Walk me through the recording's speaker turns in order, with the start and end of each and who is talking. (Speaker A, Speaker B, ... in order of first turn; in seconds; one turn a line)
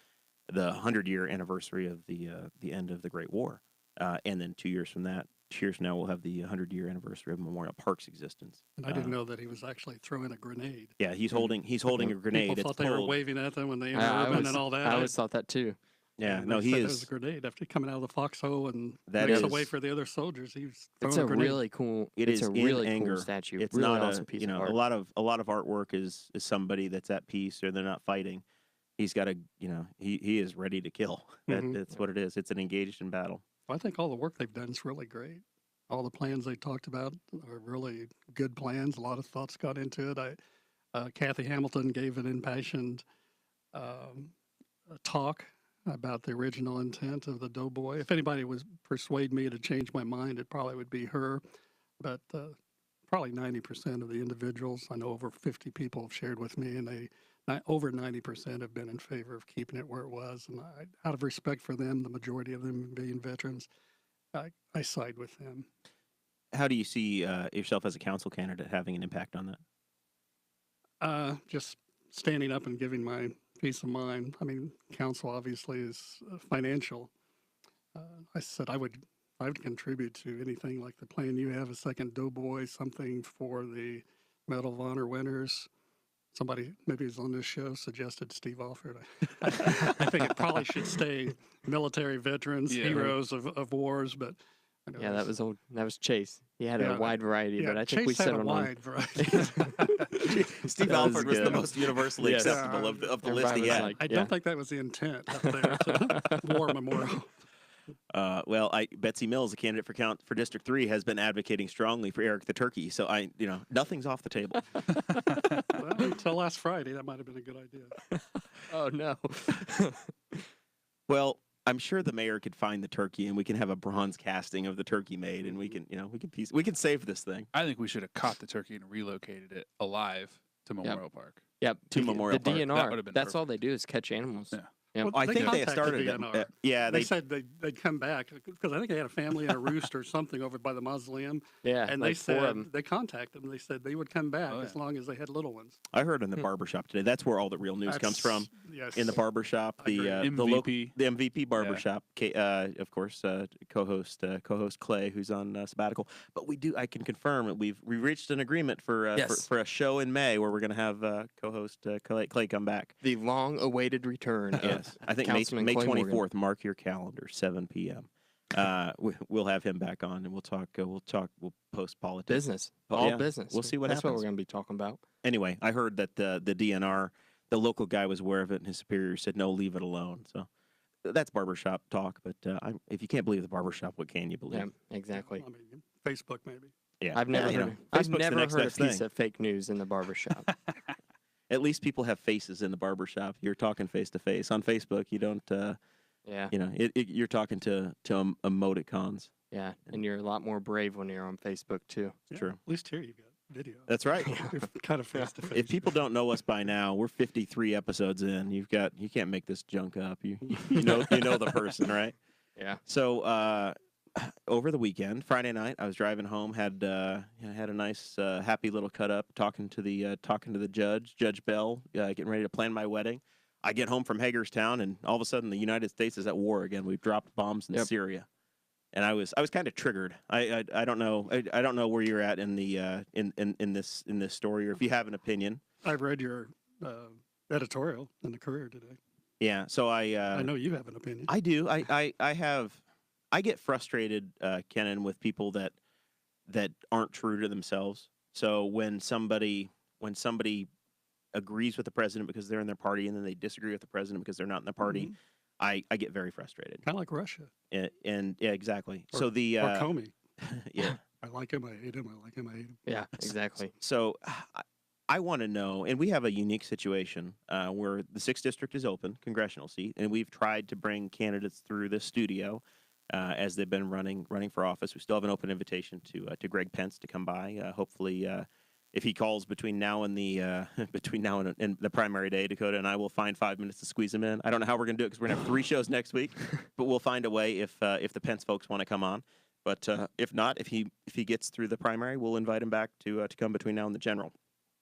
Speaker A: 0.5-9.2
Speaker B: 8.8-15.1
Speaker A: 11.0-13.2
Speaker C: 13.9-15.8
Speaker A: 16.2-17.1
Speaker B: 16.2-21.6
Speaker A: 19.1-19.7
Speaker C: 21.0-24.8
Speaker A: 22.1-28.4
Speaker A: 29.0-33.4
Speaker B: 31.5-31.8
Speaker B: 33.7-40.4
Speaker B: 40.9-43.0
Speaker B: 43.7-44.3
Speaker B: 44.9-51.4
Speaker B: 52.0-52.5
Speaker B: 53.1-63.7
Speaker B: 64.3-65.7
Speaker A: 66.5-69.6
Speaker B: 71.0-77.1
Speaker B: 77.9-85.7
Speaker B: 86.3-95.3
Speaker D: 92.7-93.1
Speaker C: 95.0-99.9
Speaker B: 96.8-100.4
Speaker A: 100.2-104.0
Speaker C: 100.7-102.7
Speaker B: 101.2-101.7
Speaker B: 102.2-107.3
Speaker C: 103.2-104.3
Speaker A: 108.1-114.6
Speaker C: 115.1-115.4
Speaker B: 115.7-118.1
Speaker C: 118.1-120.4
Speaker A: 121.1-127.5
Speaker D: 127.5-131.4
Speaker C: 131.6-135.2
Speaker A: 131.9-132.7
Speaker D: 132.3-133.4
Speaker B: 135.0-145.8
Speaker A: 135.1-137.1
Speaker D: 135.4-135.6
Speaker C: 141.6-142.7
Speaker D: 144.5-144.8
Speaker A: 145.9-162.9
Speaker B: 147.9-149.2
Speaker B: 149.8-150.2
Speaker D: 150.2-150.9
Speaker D: 151.6-151.8
Speaker C: 159.1-159.5
Speaker C: 163.0-166.2
Speaker A: 164.6-174.2
Speaker C: 172.3-175.0
Speaker A: 175.2-180.5
Speaker A: 181.0-184.7
Speaker C: 184.5-185.4
Speaker B: 185.1-186.7
Speaker A: 187.0-189.0
Speaker C: 187.1-190.5
Speaker A: 191.5-195.8
Speaker C: 196.2-196.5
Speaker A: 196.5-199.3
Speaker C: 199.5-202.2
Speaker B: 202.3-205.9
Speaker A: 202.3-202.6
Speaker A: 203.9-204.3
Speaker C: 204.2-204.5
Speaker A: 205.5-212.2
Speaker A: 212.8-228.3
Speaker A: 228.9-235.6
Speaker B: 235.8-239.0
Speaker A: 239.4-240.5
Speaker B: 240.3-241.3
Speaker A: 241.3-242.8
Speaker A: 243.3-245.8
Speaker A: 246.5-250.7
Speaker A: 251.3-256.8
Speaker B: 254.8-255.1
Speaker B: 256.8-257.5
Speaker A: 257.7-259.9
Speaker B: 259.1-260.1
Speaker A: 260.4-261.0
Speaker B: 260.8-262.8
Speaker C: 262.9-263.7
Speaker A: 263.8-272.6
Speaker A: 273.1-294.3